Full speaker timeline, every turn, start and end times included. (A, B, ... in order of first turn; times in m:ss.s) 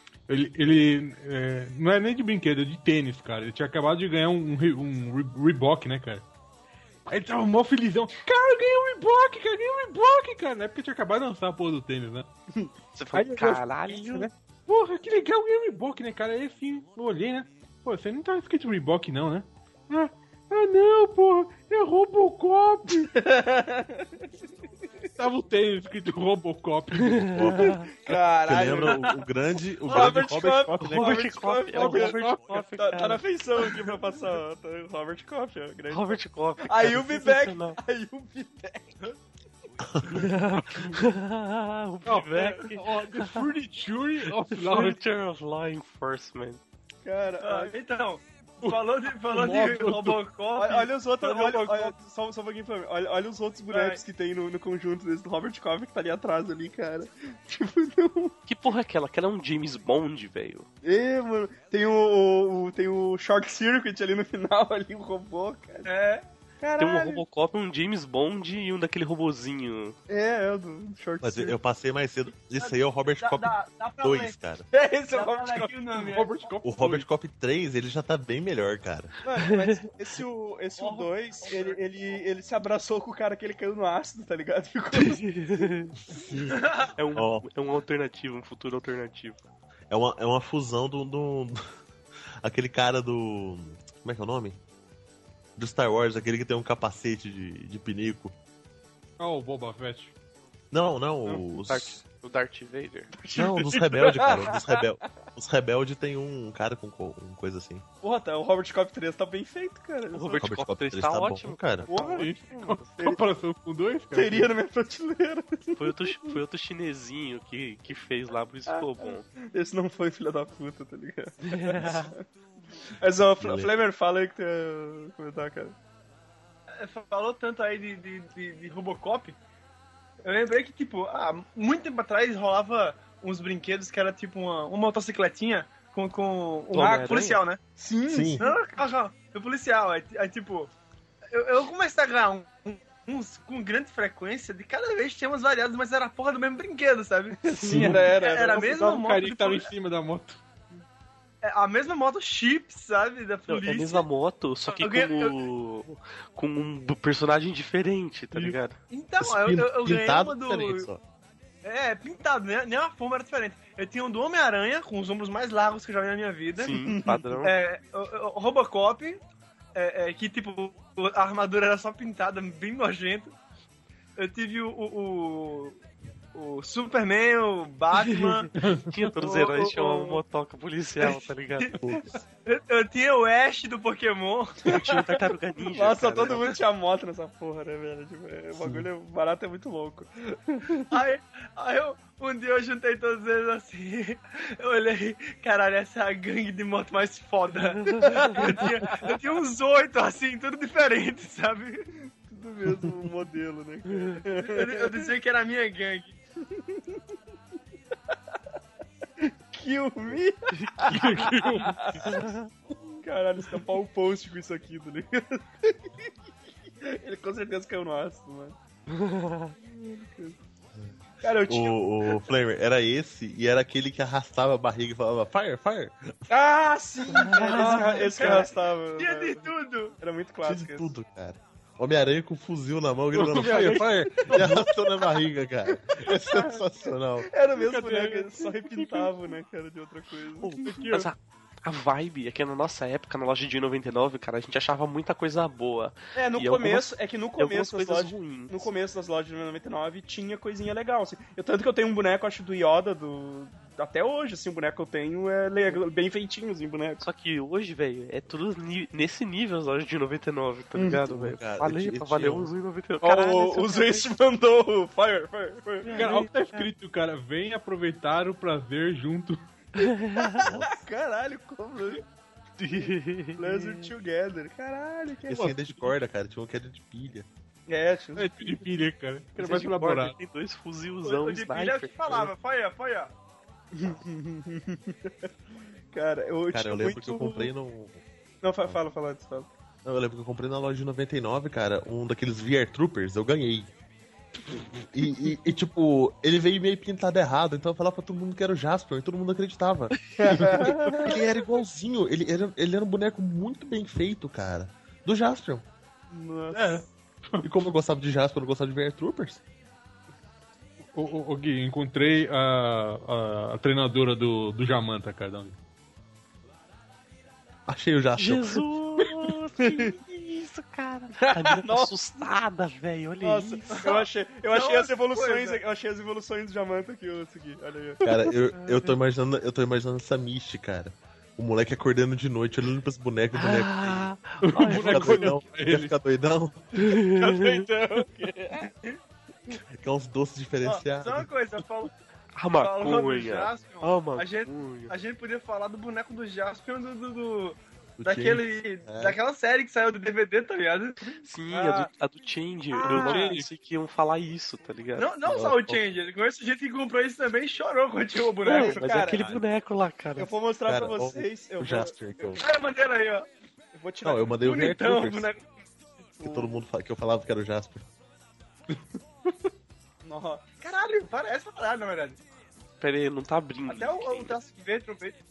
0:00.3-0:06.3 A
0:07.0-0:12.3 A
0:12.9-0:14.3 B
0:13.1-0:23.1 A
0:22.9-0:24.3 C
0:25.2-0:27.5 A
0:27.2-0:27.9 B
0:27.3-0:31.3 D
0:27.9-0:29.1 C
0:29.8-0:39.0 C
0:30.8-0:33.2 B
0:31.7-0:32.7 A
0:35.9-0:37.8 B
0:39.8-0:40.3 D
0:40.1-0:43.4 B
0:42.0-0:45.0 A
0:44.5-0:46.6 B
0:47.0-0:47.7 C
0:47.4-0:51.9 E
0:48.6-0:50.2 A
0:50.6-0:58.3 C
0:53.7-0:54.0 E
0:58.5-1:00.7 B
1:00.8-1:05.9 C
1:05.8-1:06.2 E
1:06.6-1:07.2 C
1:06.8-1:10.0 B
1:10.1-1:11.6 C
1:11.2-1:14.6 D
1:12.6-1:14.3 E
1:14.7-1:15.7 C
1:15.1-1:16.4 E
1:15.9-1:17.0 A
1:16.6-1:19.1 D
1:19.2-1:25.7 C
1:19.4-1:19.8 B
1:20.8-1:21.8 E
1:24.9-1:25.9 B
1:26.1-1:26.6 D
1:26.5-1:26.9 E
1:27.0-1:29.4 B
1:27.1-1:27.4 D
1:29.9-1:31.6 D
1:32.4-1:34.6 D
1:35.6-1:38.3 D
1:39.2-1:40.1 A
1:40.7-1:42.0 D
1:41.7-1:43.1 B
1:43.1-1:44.8 C
1:43.3-1:47.8 D
1:48.0-1:50.5 C
1:50.1-1:52.9 B
1:50.4-1:51.9 D
1:51.9-1:52.4 C
1:52.0-1:54.5 A
1:54.1-1:56.4 C
1:55.8-1:59.2 B
1:58.7-2:02.2 C
2:01.5-2:02.1 B
2:03.0-2:05.7 C
2:03.4-2:03.7 D
2:06.8-2:09.4 E
2:10.2-2:17.6 E
2:16.7-2:17.4 B
2:16.8-2:17.1 C
2:17.8-2:18.7 C
2:18.1-2:18.4 D
2:18.4-2:20.7 E
2:21.3-2:29.7 E
2:27.5-2:28.8 C
2:27.6-2:30.4 A
2:31.4-2:34.1 E
2:33.5-2:38.8 B
2:34.7-2:35.4 E
2:38.3-2:38.6 A
2:38.9-2:40.9 E
2:39.2-2:41.0 D
2:41.6-2:46.8 E
2:46.6-2:47.5 B
2:46.9-2:47.3 C
2:47.4-2:49.2 E
2:49.7-2:53.3 E
2:54.2-2:55.8 E
2:56.3-2:58.5 E
2:58.0-3:01.7 B
2:58.6-2:59.1 A
2:59.2-3:00.2 E
3:01.8-3:02.2 D
3:02.4-3:04.7 E
3:04.6-3:06.5 B
3:04.7-3:10.9 C
3:08.6-3:08.9 D
3:10.9-3:21.9 E
3:17.8-3:18.3 B
3:18.2-3:18.5 C
3:22.2-3:25.1 C
3:24.3-3:26.1 E
3:26.5-3:27.0 C
3:29.2-3:32.3 C
3:30.6-3:31.3 B
3:30.9-3:32.0 A
3:32.0-3:32.5 B
3:33.0-3:36.1 C
3:36.8-3:38.6 C
3:38.9-3:39.5 B
3:39.6-3:40.4 C
3:41.2-3:42.2 C
3:41.4-3:46.3 D
3:46.3-3:50.9 C
3:47.2-3:48.3 B
3:47.3-3:49.9 E
3:50.4-3:57.3 D
3:53.1-3:54.6 A
3:54.2-3:54.7 C
3:55.9-3:56.6 C
3:57.2-4:00.8 C
3:57.5-3:59.1 A
4:00.5-4:01.1 A
4:00.9-4:08.7 B
4:06.1-4:17.0 C
4:17.0-4:24.1 B
4:20.8-4:21.0 C
4:21.0-4:22.5 D
4:23.0-4:26.2 C
4:25.8-4:26.7 B
4:25.9-4:29.4 A
4:29.8-4:30.4 B
4:30.2-4:32.0 C
4:30.4-4:30.8 D
4:32.6-4:33.8 B
4:32.7-4:35.4 C
4:35.2-4:37.3 D
4:35.3-4:35.7 A
4:37.7-4:38.6 C
4:38.2-4:40.2 A
4:39.4-4:42.3 B
4:41.0-4:43.1 E
4:43.7-4:45.1 C
4:45.9-4:47.5 C
4:46.5-4:48.0 D
4:48.4-4:49.5 C
4:49.8-4:53.7 D
4:54.7-5:05.6 D
5:00.2-5:01.2 C
5:06.1-5:06.8 C
5:06.5-5:07.4 A
5:07.4-5:09.4 D
5:10.9-5:15.6 A
5:17.7-5:18.6 D
5:18.2-5:23.8 B
5:19.6-5:19.9 C
5:21.2-5:21.9 C
5:23.2-5:28.3 C
5:23.7-5:25.6 E
5:28.0-5:36.7 D
5:33.3-5:35.3 B
5:34.4-5:35.9 A
5:36.8-5:37.6 B
5:37.0-5:38.7 C
5:39.8-5:41.3 D
5:40.6-5:41.9 E
5:42.4-5:44.9 B
5:42.5-5:51.2 E
5:48.0-5:49.2 D
5:51.2-5:55.1 B
5:51.5-5:51.9 C
5:52.8-5:53.3 E
5:52.8-5:53.5 A
5:52.9-5:53.2 C
5:55.0-5:58.9 E
5:55.2-5:55.8 D
5:58.4-5:59.2 C
5:58.4-6:00.3 B
5:59.1-5:59.4 D
6:00.2-6:02.3 C
6:00.6-6:02.4 D
6:02.4-6:03.3 E
6:03.8-6:04.4 C
6:04.0-6:05.3 D
6:04.4-6:05.4 E
6:06.2-6:06.6 C
6:06.2-6:07.9 D
6:10.0-6:10.4 C
6:10.6-6:12.2 E
6:12.8-6:14.4 B
6:13.7-6:15.2 E